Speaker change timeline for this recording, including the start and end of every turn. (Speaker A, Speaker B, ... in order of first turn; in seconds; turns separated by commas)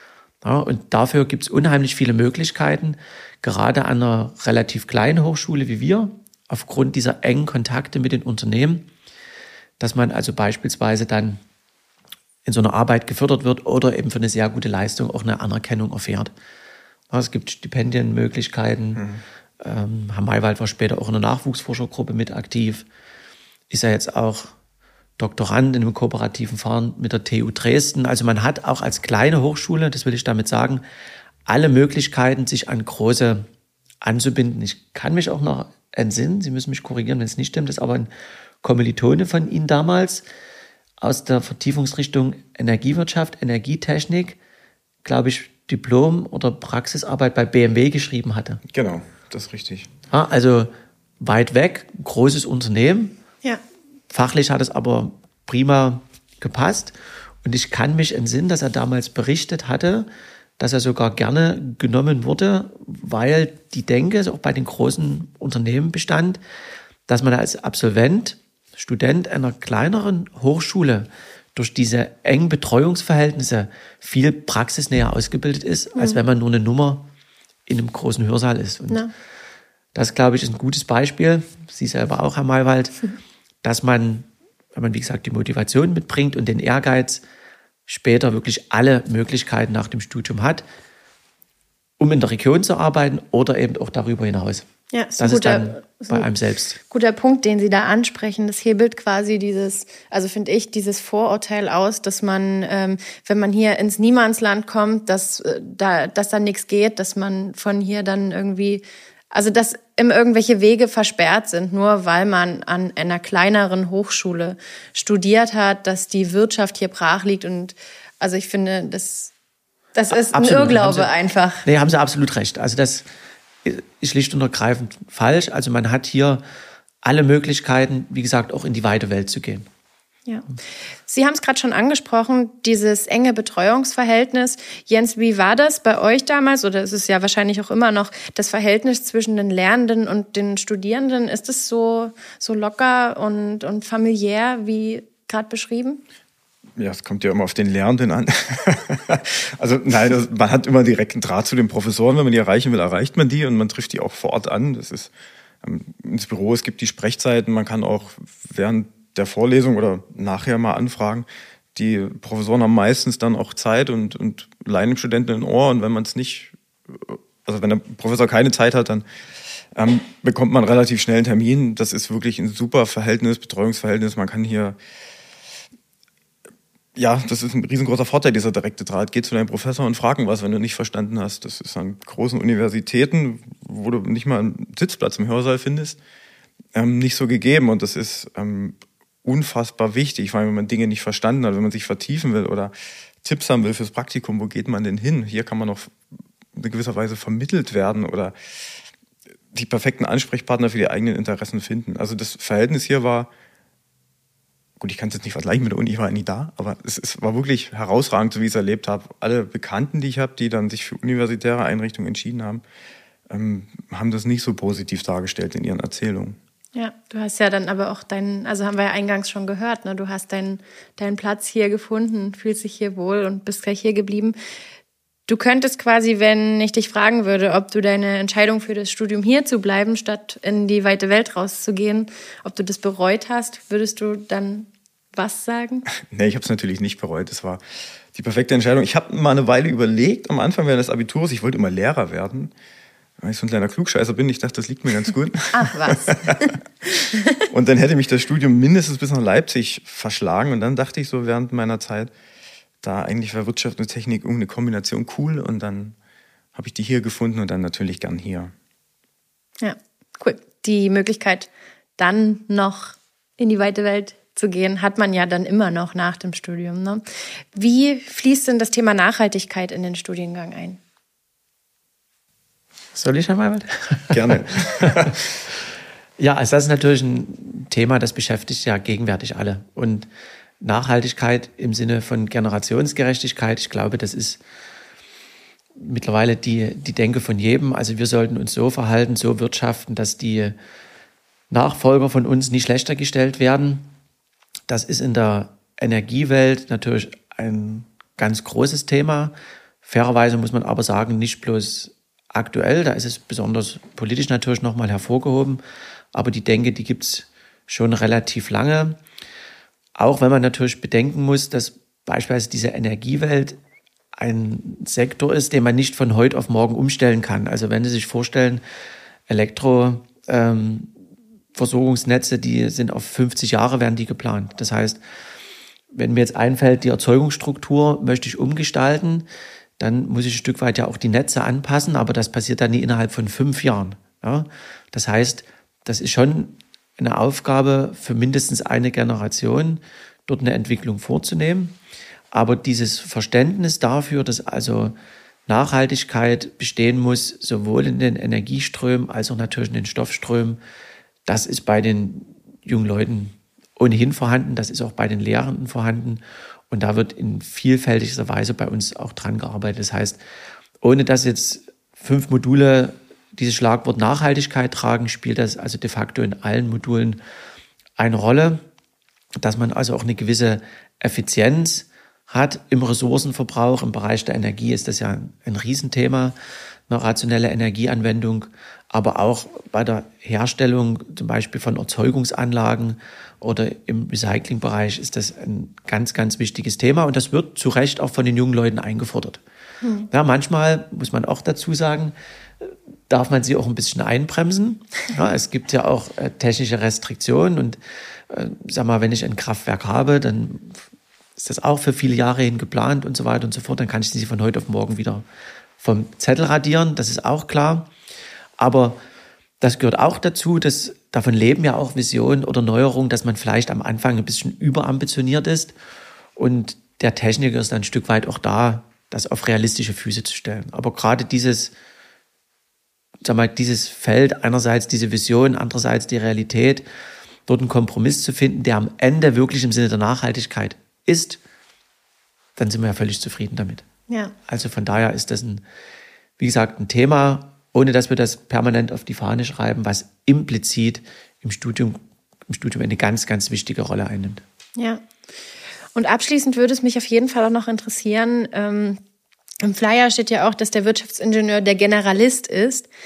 Speaker A: 0.4-8.9, Speaker A: 9.8-11.4, Speaker A: 12.4-16.3, Speaker A: 17.1-19.1, Speaker B: 19.0-19.2, Speaker A: 19.6-22.9, Speaker A: 23.7-24.6, Speaker A: 25.2-30.8, Speaker A: 31.5-33.5, Speaker A: 34.0-38.1, Speaker A: 38.6-40.2, Speaker A: 41.0-44.4, Speaker A: 45.0-48.6, Speaker B: 48.7-49.9, Speaker A: 50.1-53.1, Speaker A: 54.1-66.4, Speaker A: 67.1-77.1, Speaker A: 77.7-79.0, Speaker A: 80.0-83.0, Speaker A: 83.6-87.2, Speaker A: 87.9-90.7, Speaker A: 92.0-96.8, Speaker C: 94.9-96.3, Speaker C: 96.9-119.3, Speaker C: 120.0-121.7, Speaker A: 120.1-121.1, Speaker A: 121.6-123.1, Speaker A: 123.7-126.4, Speaker A: 127.0-129.7, Speaker C: 131.1-146.0, Speaker B: 146.8-155.1, Speaker B: 155.6-169.1, Speaker B: 169.7-174.8, Speaker B: 177.0-186.0, Speaker B: 186.8-195.9, Speaker B: 196.5-198.3, Speaker B: 199.5-203.3, Speaker B: 204.8-212.6, Speaker B: 213.3-216.4, Speaker C: 216.7-224.4, Speaker C: 225.3-235.9, Speaker B: 236.0-242.5, Speaker B: 243.2-246.5, Speaker C: 245.5-246.6, Speaker C: 247.1-247.4, Speaker B: 247.5-252.1, Speaker B: 252.8-256.0, Speaker B: 256.6-258.5, Speaker C: 259.6-270.8, Speaker A: 272.9-275.2, Speaker B: 274.1-275.2, Speaker A: 276.2-280.1, Speaker A: 280.6-284.4, Speaker A: 285.8-290.6, Speaker A: 291.5-293.9, Speaker A: 294.7-305.6, Speaker A: 306.1-309.0, Speaker A: 310.0-313.6, Speaker A: 314.2-318.6, Speaker A: 319.3-320.9, Speaker A: 321.6-325.0, Speaker A: 325.9-329.3, Speaker A: 329.8-341.8, Speaker A: 342.3-345.0, Speaker A: 345.5-350.6, Speaker A: 351.3-360.2, Speaker A: 360.8-367.2, Speaker A: 368.0-368.6, Speaker A: 369.4-376.4, Speaker A: 376.9-389.4, Speaker C: 389.8-390.1, Speaker A: 390.1-400.9, Speaker A: 401.4-405.2, Speaker A: 405.8-407.9, Speaker A: 408.6-409.0, Speaker A: 409.6-415.8, Speaker A: 416.4-421.7, Speaker A: 423.2-426.9, Speaker A: 427.5-431.4, Speaker A: 432.6-433.9, Speaker C: 434.1-434.4, Speaker A: 434.5-435.6, Speaker A: 436.4-444.4, Speaker C: 444.8-445.0, Speaker C: 445.9-449.0, Speaker C: 449.6-452.9